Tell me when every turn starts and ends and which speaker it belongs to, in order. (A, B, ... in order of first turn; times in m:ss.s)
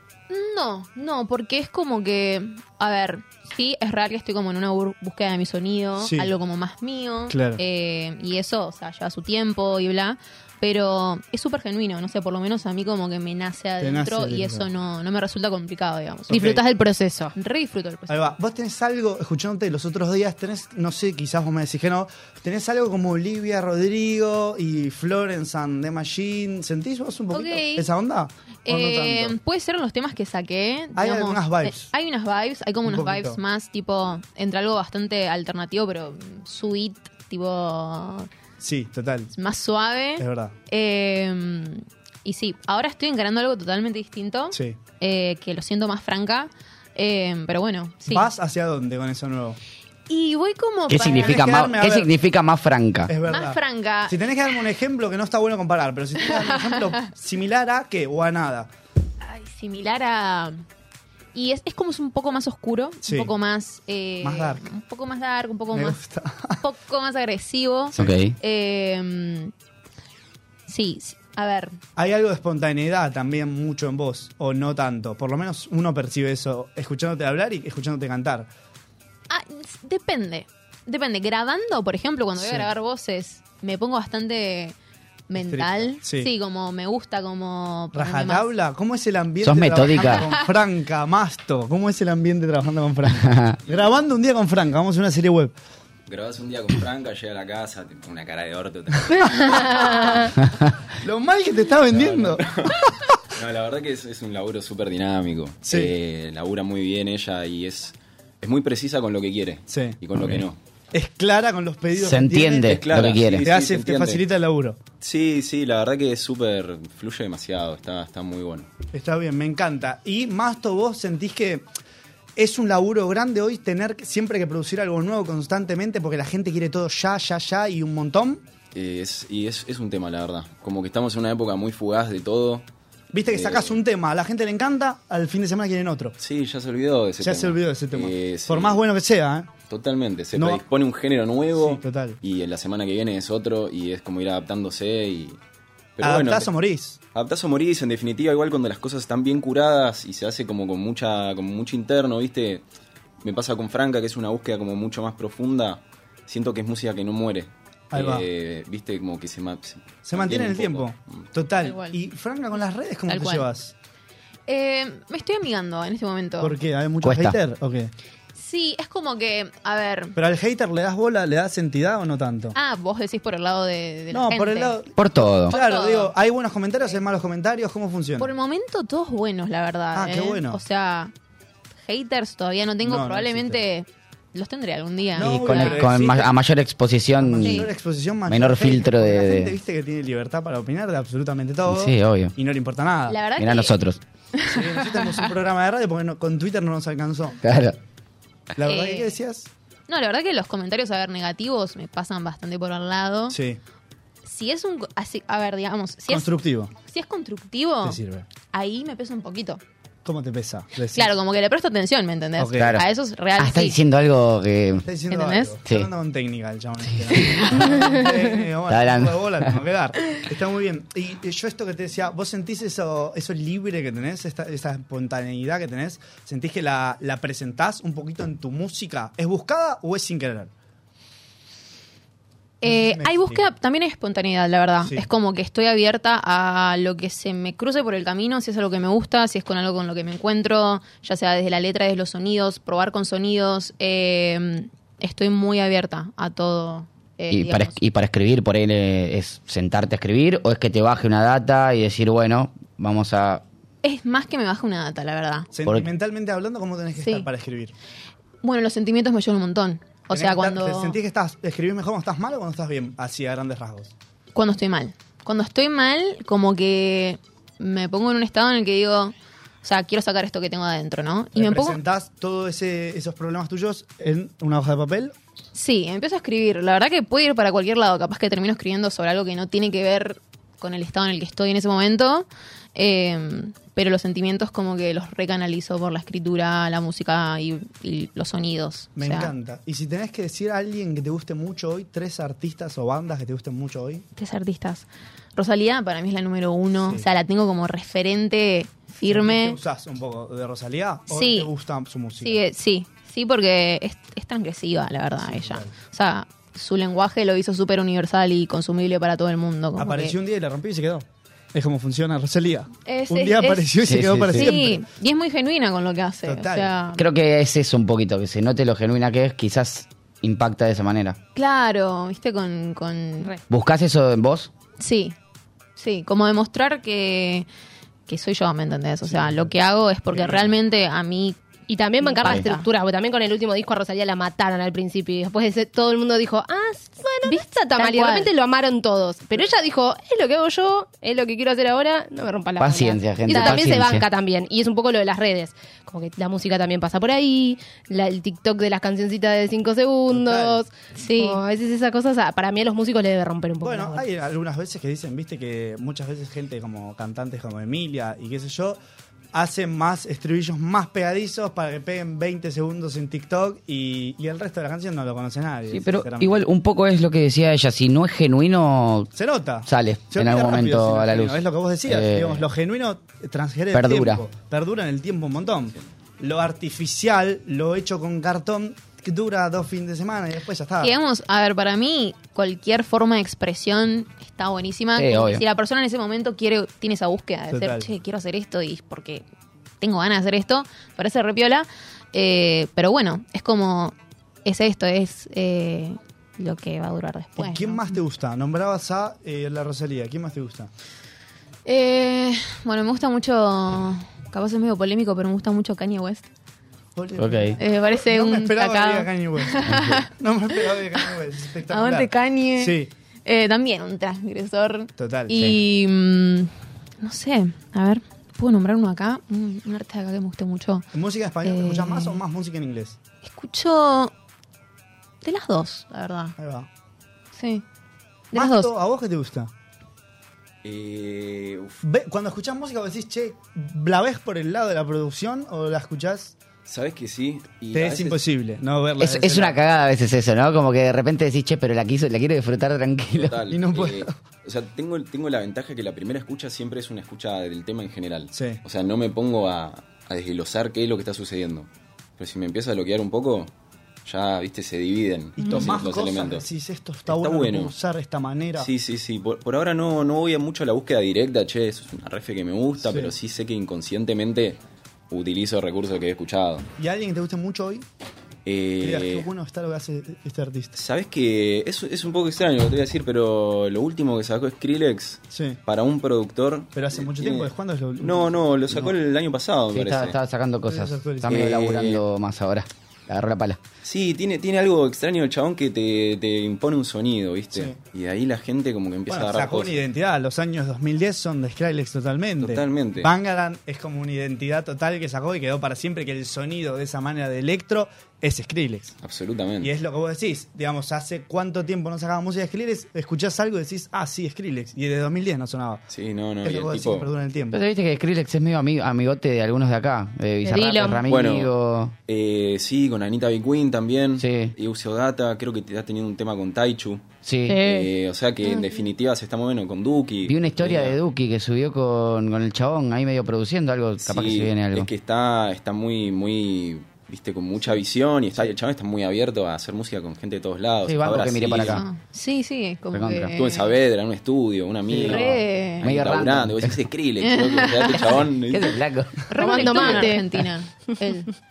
0:00.3-0:16.5 A
0:06.0-0:06.3 B
0:07.3-0:07.6 B
0:13.8-0:14.7 B
0:16.3-0:17.3 C
0:16.3-0:16.6 B
0:17.3-0:18.3 A
0:18.1-0:29.4 B
0:27.3-0:27.9 A
0:28.6-0:38.3 A
0:30.9-0:31.9 B
0:32.8-0:33.4 B
0:38.6-0:39.3 B
0:39.3-0:48.3 A
0:40.2-0:40.5 B
0:44.5-0:44.8 B
0:48.1-0:49.6 B
0:50.1-0:51.4 A
0:50.9-0:53.1 D
0:51.1-0:52.1 B
0:53.1-0:58.7 B
0:53.2-0:54.2 A
0:56.3-0:56.8 A
0:59.2-1:00.6 A
1:01.3-1:06.0 A
1:03.0-1:03.3 B
1:04.2-1:04.7 B
1:05.7-1:06.6 B
1:06.6-1:09.5 A
1:07.9-1:08.2 B
1:08.0-1:08.4 D
1:10.7-1:11.8 A
1:12.0-1:18.5 B
1:19.3-1:24.8 A
1:22.4-1:22.7 B
1:25.3-1:28.5 A
1:25.3-1:26.3 B
1:27.9-1:35.5 B
1:29.4-1:30.3 D
1:30.0-1:30.4 A
1:33.2-1:33.6 D
1:36.1-1:40.3 E
1:41.0-1:42.4 B
1:41.9-1:50.6 E
1:45.6-1:45.9 B
1:49.7-1:50.0 B
1:50.9-1:54.8 B
1:51.9-1:53.4 D
1:52.6-1:54.2 E
1:55.0-1:58.7 E
1:58.9-2:01.7 B
2:02.4-2:08.4 B
2:08.7-2:12.6 E
2:13.1-2:16.2 B
2:13.3-2:13.8 E
2:16.2-2:18.8 E
2:17.2-2:19.5 B
2:19.7-2:25.4 E
2:20.3-2:20.6 B
2:21.5-2:22.2 B
2:26.0-2:26.5 E
2:26.0-2:27.0 B
2:27.1-2:32.6 E
2:33.2-2:41.2 E
2:37.9-2:38.2 B
2:40.0-2:43.7 B
2:41.6-2:42.0 A
2:43.1-2:43.5 A
2:44.5-2:46.6 A
2:46.4-2:47.9 B
2:47.0-2:47.4 D
2:48.3-2:50.2 A
2:50.2-2:52.6 B
2:52.5-2:54.8 A
2:54.1-2:58.3 B
2:55.0-2:55.5 D
2:55.5-2:56.1 A
2:58.2-3:01.1 A
2:59.9-3:00.6 B
3:01.8-3:05.9 A
3:02.8-3:03.6 B
3:05.1-3:06.3 B
3:05.2-3:07.6 D
3:07.2-3:13.2 B
3:07.4-3:07.7 A
3:08.3-3:09.5 D
3:11.6-3:12.3 D
3:13.1-3:13.8 A
3:13.4-3:14.0 D
3:14.3-3:15.3 A
3:14.5-3:17.4 B
3:17.4-3:17.8 D
3:18.6-3:19.5 B
3:18.6-3:19.1 A
3:19.9-3:23.4 A
3:23.3-3:23.6 B
3:24.2-3:26.3 A
3:26.1-3:26.7 B
3:26.8-3:29.6 A
3:27.8-3:28.3 B
3:30.0-3:31.1 B
3:30.9-3:33.8 A
3:32.4-3:32.8 B
3:32.6-3:32.8 D
3:33.4-3:34.9 D
3:34.8-3:50.5 B
3:35.1-3:35.6 A
3:37.2-3:37.9 A
3:38.7-3:39.5 D
3:52.6-4:07.8 A
3:52.6-3:53.5 B
4:07.3-4:13.4 D
4:13.8-4:15.5 A
4:15.5-4:17.7 B
4:17.0-4:17.3 A
4:18.4-4:21.0 A
4:20.1-4:23.9 B
4:24.3-4:31.8 A
4:31.3-4:35.1 B
4:35.5-4:49.3 A
4:49.0-4:54.0 B
4:54.2-4:59.6 A
4:59.1-5:02.4 B
5:01.1-5:01.5 A
5:02.2-5:10.1 A
5:05.2-5:05.7 B
5:09.8-5:14.8 B
5:12.8-5:17.0 A
5:13.8-5:14.5 D
5:16.2-5:16.7 B
5:17.0-5:21.2 D
5:21.3-5:23.3 A
5:23.5-5:24.5 D
5:24.8-5:25.2 A
5:25.8-5:27.5 A
5:28.1-5:31.4 A
5:29.0-5:29.5 B
5:30.1-5:30.5 B
5:31.7-5:54.0 C
5:32.0-5:32.7 A
5:37.2-5:38.3 A
5:42.6-5:44.0 D
5:43.3-5:43.7 A
5:50.1-5:50.6 B
5:51.0-5:51.4 A
5:53.6-5:58.8 B
5:59.3-6:06.4 B
6:05.7-6:09.1 D
6:09.1-6:21.0 B
6:09.6-6:12.4 D
6:13.7-6:14.2 D
6:20.8-6:29.2 A
6:25.0-6:25.4 D
6:27.5-6:27.9 B
6:29.8-6:37.9 A
6:37.4-6:40.7 B
6:41.6-6:46.3 A
6:47.0-6:52.9 B
6:47.2-6:47.6 D
6:47.6-6:50.1 A
6:49.6-6:50.0 D
6:51.7-7:00.8 A
6:55.0-6:55.5 B
7:00.9-7:03.0 B
7:01.4-7:02.2 A
7:03.2-7:04.1 A
7:05.2-7:06.3 A
7:06.4-7:06.7 B
7:07.3-7:07.6 A
7:08.3-7:08.7 A
7:08.3-7:09.5 B
7:10.6-7:11.8 E
7:11.8-7:16.4 B
7:16.6-7:18.2 E
7:17.7-7:19.6 B
7:19.0-7:23.4 D
7:23.1-7:33.5 E
7:23.5-7:24.1 B
7:28.3-7:28.6 B
7:34.0-7:36.4 E
7:35.4-7:38.7 B
7:37.1-7:37.7 E
7:38.6-7:44.6 E
7:42.8-7:43.1 B
7:45.1-7:46.7 E
7:46.8-7:47.8 B
7:48.4-7:49.2 E
7:48.8-7:50.7 B
7:50.7-8:00.2 E
7:55.3-7:55.6 B
7:56.7-7:58.8 B
7:59.7-8:03.6 D
8:00.6-8:01.5 B
8:01.3-8:02.0 E
8:03.8-8:09.8 E
8:07.5-8:07.8 B
8:09.1-8:18.9 B
8:12.4-8:13.1 E
8:19.0-8:19.7 E
8:19.6-8:25.8 B
8:25.9-8:27.1 E
8:26.4-8:27.6 B
8:27.5-8:31.9 D
8:30.4-8:31.0 C
8:31.1-8:31.5 E
8:32.1-8:37.0 E
8:34.2-8:34.5 D
8:37.2-8:37.6 D
8:37.5-8:37.9 C
8:37.6-8:41.0 E
8:38.4-8:38.8 A
8:40.3-8:44.9 D
8:44.0-8:51.8 E
8:50.8-8:51.8 D
8:51.7-8:53.7 A
8:52.9-8:53.3 D
8:53.3-8:58.8 E
8:54.9-8:56.8 D
8:55.1-8:55.9 A
8:57.2-8:58.2 A
8:58.1-9:00.1 D
8:59.3-9:01.3 A
8:59.4-9:00.4 C